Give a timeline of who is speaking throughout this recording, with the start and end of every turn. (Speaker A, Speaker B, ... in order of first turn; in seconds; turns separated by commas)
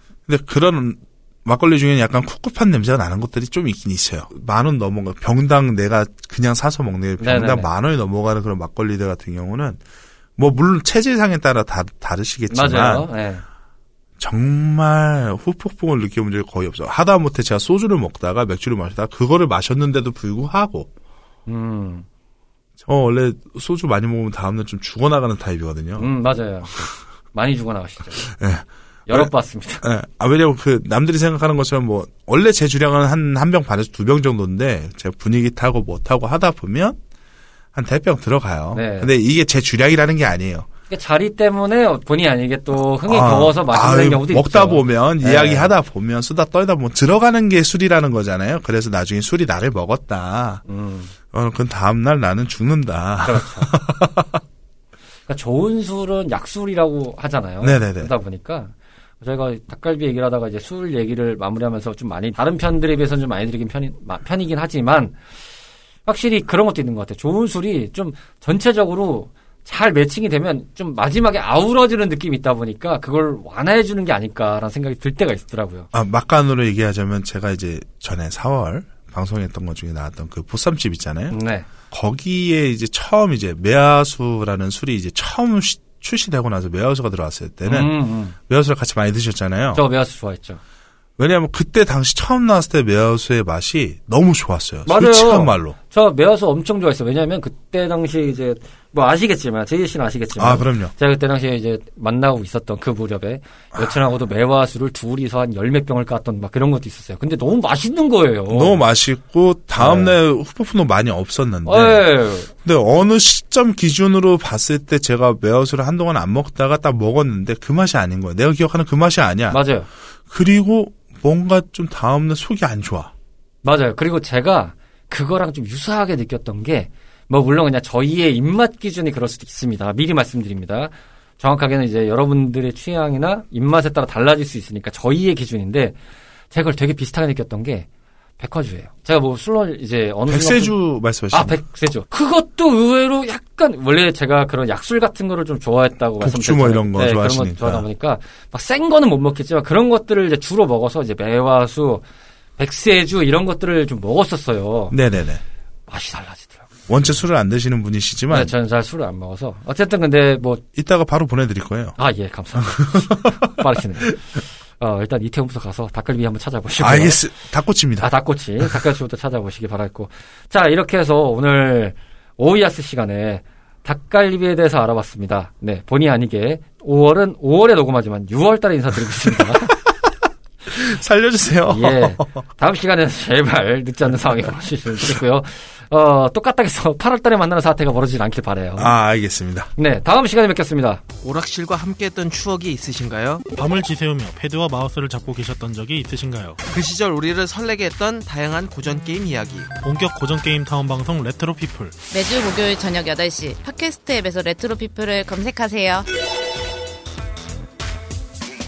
Speaker A: 0.3-9.8, Speaker B: 7.2-7.7, Speaker A: 10.4-13.1, Speaker B: 12.5-13.4, Speaker A: 14.2-20.9, Speaker B: 21.5-22.1, Speaker A: 22.8-26.1, Speaker B: 26.0-28.3, Speaker A: 28.2-29.3, Speaker B: 29.1-29.8, Speaker A: 29.8-37.0, Speaker A: 37.7-40.7, Speaker B: 38.7-39.1, Speaker B: 40.9-45.7, Speaker A: 43.1-50.6, Speaker B: 50.7-51.1, Speaker A: 51.3-54.4, Speaker B: 53.2-53.7, Speaker B: 55.3-65.2, Speaker A: 57.6-58.1, Speaker B: 66.1-75.9, Speaker A: 75.9-81.4, Speaker B: 81.3-81.7, Speaker A: 81.9-89.8, Speaker B: 87.7-88.3, Speaker B: 89.7-90.6, Speaker A: 91.2-95.8, Speaker B: 94.9-108.8, Speaker A: 100.4-100.9, Speaker A: 108.5-119.6, Speaker B: 109.8-110.2, Speaker B: 111.7-112.5, Speaker B: 119.5-119.9, Speaker A: 120.3-123.1, Speaker B: 123.6-136.0, Speaker B: 136.5-137.9, Speaker B: 138.4-140.8, Speaker A: 140.3-141.6, Speaker B: 141.3-152.0, Speaker A: 146.2-147.8, Speaker B: 152.6-155.0, Speaker A: 154.9-155.4, Speaker B: 155.9-156.7, Speaker A: 156.9-158.5, Speaker B: 158.3-160.6, Speaker A: 160.8-162.0, Speaker B: 162.0-164.2, Speaker A: 162.7-163.5, Speaker B: 164.8-167.2, Speaker A: 166.8-168.1, Speaker B: 168.0-179.8, Speaker A: 180.7-182.4, Speaker B: 181.7-188.9, Speaker A: 188.8-189.7, Speaker B: 189.8-191.0, Speaker C: 191.2-193.5, Speaker D: 193.5-196.6, Speaker C: 196.7-199.7, Speaker D: 199.8-202.0, Speaker E: 202.1-206.1